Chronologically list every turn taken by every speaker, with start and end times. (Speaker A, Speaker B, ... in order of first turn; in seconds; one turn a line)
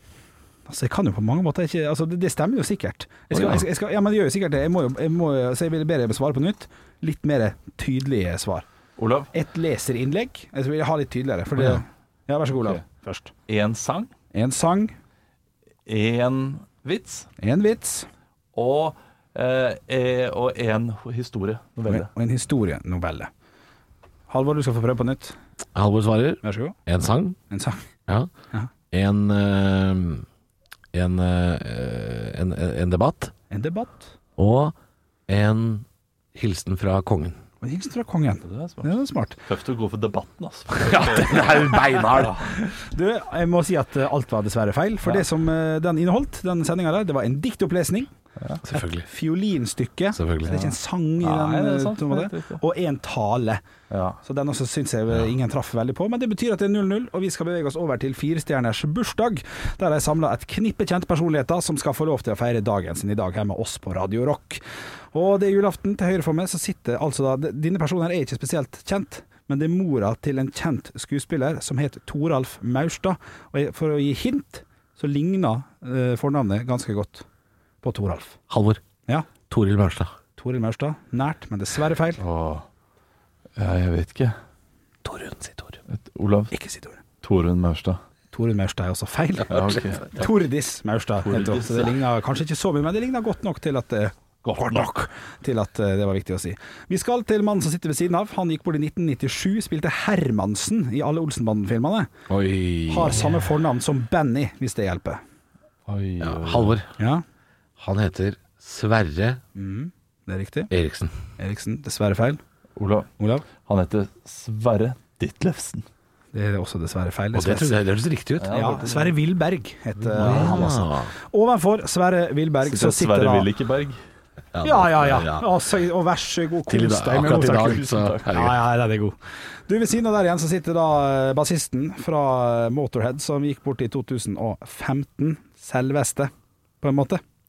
Speaker A: 0.7-8.7
Speaker B: 3.3-3.6
Speaker C: 9.0-9.3
Speaker A: 9.3-13.3
Speaker C: 12.6-12.8
Speaker C: 13.5-14.1
Speaker A: 14.3-14.9
Speaker C: 15.9-17.3
Speaker A: 17.4-18.1
Speaker C: 18.6-22.1
Speaker A: 21.9-23.3
Speaker A: 24.3-25.4
Speaker B: 25.8-27.4
Speaker A: 26.4-26.8
Speaker A: 27.5-27.8
Speaker B: 28.9-30.2
Speaker B: 30.9-33.3
Speaker A: 33.5-34.1
Speaker B: 34.4-34.8
Speaker B: 35.3-37.4
Speaker A: 37.6-39.4
Speaker C: 38.4-38.9
Speaker C: 39.5-42.5
Speaker B: 40.8-42.4
Speaker A: 42.5-48.1
Speaker B: 48.6-49.1
Speaker A: 48.8-53.6
Speaker B: 50.1-50.7
Speaker C: 51.2-52.6
Speaker C: 53.9-54.2
Speaker A: 54.2-64.6
Speaker A: 65.1-77.2
Speaker A: 77.8-78.4
Speaker B: 78.5-78.8
Speaker B: 79.5-80.1
Speaker A: 80.4-82.2
Speaker C: 82.2-82.6
Speaker C: 83.6-84.4
Speaker B: 85.0-85.8
Speaker C: 85.9-86.5
Speaker A: 86.5-87.0
Speaker C: 87.2-88.0
Speaker A: 88.3-102.1
Speaker B: 89.5-90.0
Speaker C: 89.5-90.2
Speaker C: 91.2-91.9
Speaker C: 94.4-94.9
Speaker B: 102.3-103.3
Speaker A: 102.9-105.2
Speaker C: 105.9-106.8
Speaker B: 106.2-106.9
Speaker A: 107.0-107.2
Speaker B: 107.8-109.4
Speaker A: 109.5-110.7
Speaker B: 110.7-111.2
Speaker A: 111.4-112.4
Speaker C: 112.8-113.1
Speaker A: 113.2-113.4
Speaker C: 113.6-115.9
Speaker A: 116.3-117.8
Speaker B: 117.3-118.7
Speaker C: 118.4-119.1
Speaker A: 118.5-123.5
Speaker C: 120.0-120.7
Speaker B: 120.1-121.1
Speaker C: 122.6-124.0
Speaker B: 124.5-125.6
Speaker A: 124.6-129.2
Speaker B: 126.7-128.6
Speaker C: 127.4-128.3
Speaker A: 129.7-137.2